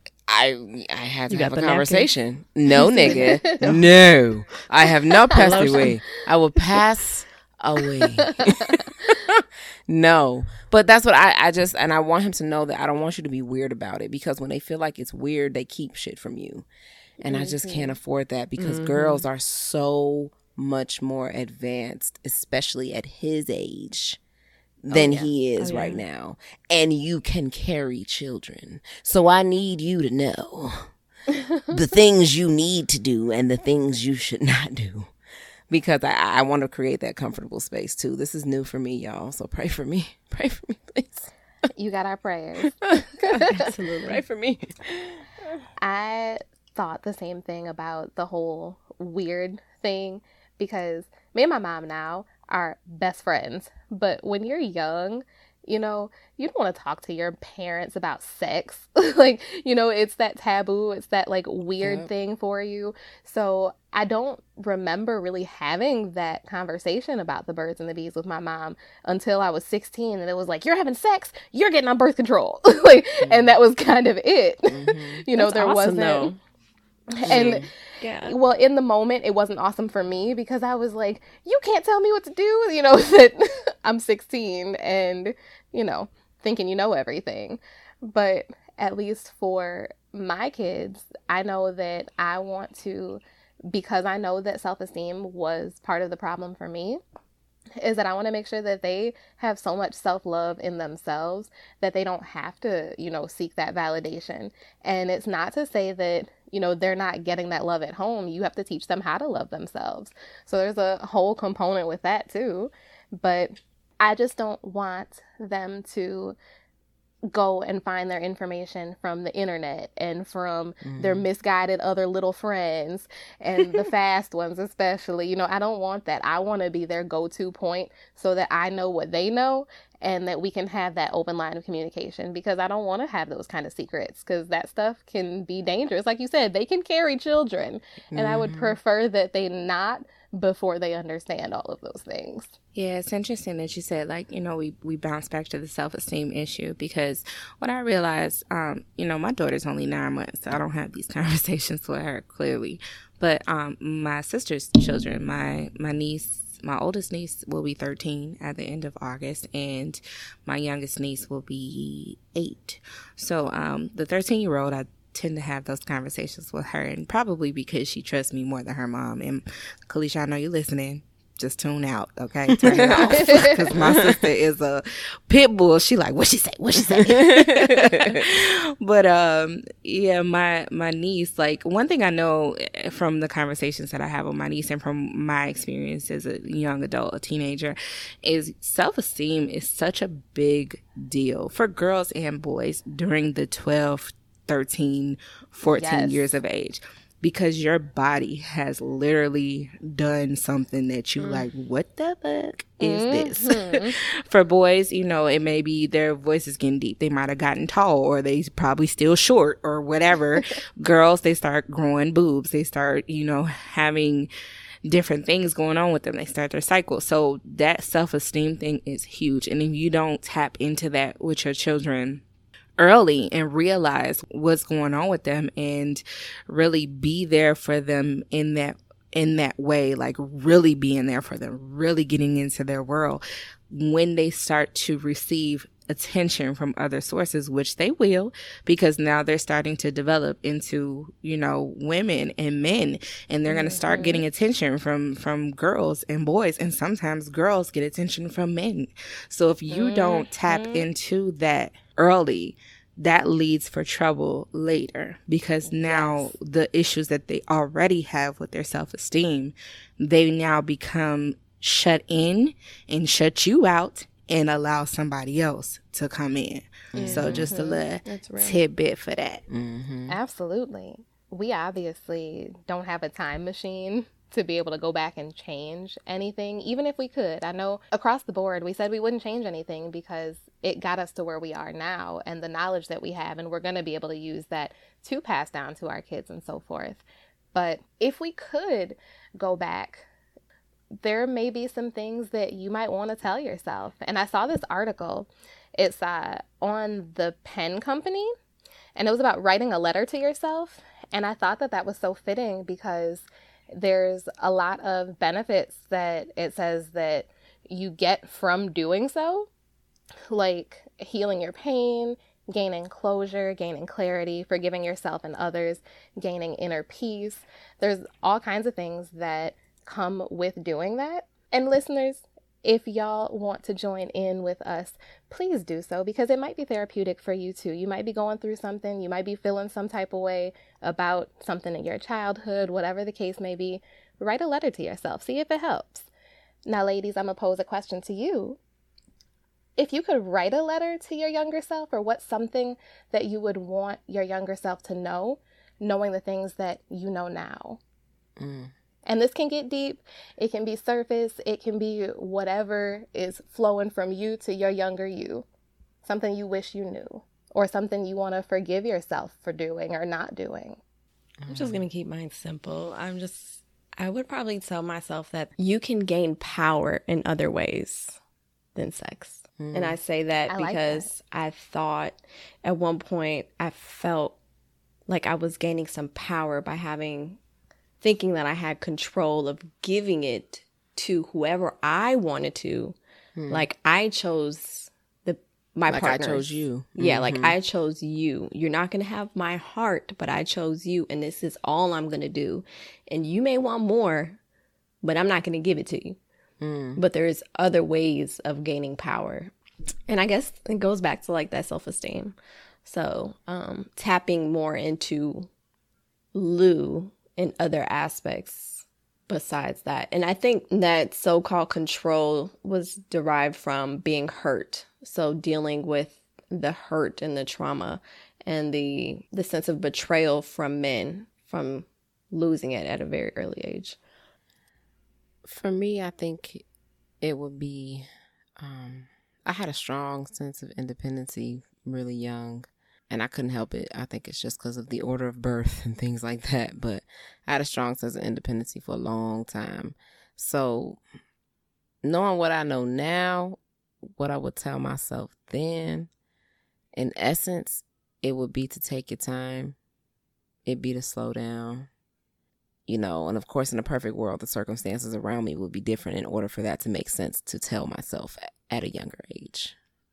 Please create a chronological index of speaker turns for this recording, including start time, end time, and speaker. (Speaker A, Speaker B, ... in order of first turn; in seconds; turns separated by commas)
Speaker A: 0.3-16.6, Speaker B: 1.3-2.1, Speaker B: 2.8-3.8, Speaker C: 2.8-3.7, Speaker B: 5.3-6.0, Speaker C: 5.4-5.9, Speaker C: 8.2-9.1, Speaker A: 17.2-24.2, Speaker C: 17.2-17.9, Speaker B: 18.6-19.2, Speaker A: 24.8-30.9, Speaker B: 25.6-26.0, Speaker A: 31.7-35.1, Speaker A: 35.7-41.3, Speaker C: 41.7-43.5, Speaker A: 42.8-43.1, Speaker B: 43.3-44.2, Speaker A: 44.0-45.2, Speaker C: 45.8-76.3, Speaker A: 61.8-62.1, Speaker A: 73.2-73.5, Speaker A: 74.7-75.2, Speaker B: 75.4-76.4, Speaker C: 77.1-77.7, Speaker A: 77.2-77.7, Speaker B: 77.3-78.3, Speaker C: 78.2-97.0, Speaker C: 97.8-116.3, Speaker C: 117.3-142.5, Speaker A: 120.8-121.2, Speaker A: 138.1-138.8, Speaker D: 142.7-214.3, Speaker A: 172.5-174.2, Speaker C: 173.2-173.5, Speaker A: 176.8-178.2, Speaker C: 195.7-196.3, Speaker B: 201.2-201.5, Speaker C: 202.8-203.9, Speaker D: 214.8-222.2, Speaker D: 222.8-269.4, Speaker C: 243.5-244.2, Speaker C: 249.7-250.8, Speaker C: 255.7-256.3, Speaker A: 266.9-267.5, Speaker B: 267.0-267.4, Speaker C: 267.1-267.9, Speaker B: 268.0-268.6, Speaker A: 269.5-270.1, Speaker C: 270.1-290.1, Speaker C: 291.0-298.3, Speaker C: 298.9-309.5, Speaker C: 310.3-336.1, Speaker C: 336.7-338.6, Speaker C: 339.8-347.8, Speaker A: 348.4-348.7, Speaker C: 349.1-355.4, Speaker C: 356.0-360.8, Speaker A: 361.4-361.8, Speaker B: 361.5-368.2, Speaker B: 368.7-374.4, Speaker A: 369.6-370.0, Speaker C: 370.5-371.1, Speaker B: 375.1-377.4, Speaker B: 378.0-382.9, Speaker A: 383.4-383.7, Speaker B: 383.5-394.4, Speaker A: 385.9-387.6, Speaker B: 395.0-396.2, Speaker A: 396.6-397.0, Speaker B: 396.9-399.5, Speaker B: 400.1-405.5, Speaker B: 406.3-424.0, Speaker A: 425.4-426.6, Speaker A: 427.2-428.1, Speaker A: 428.6-441.0, Speaker A: 442.0-443.6, Speaker A: 444.1-446.1, Speaker A: 446.9-449.8, Speaker A: 450.6-451.9, Speaker A: 452.9-459.8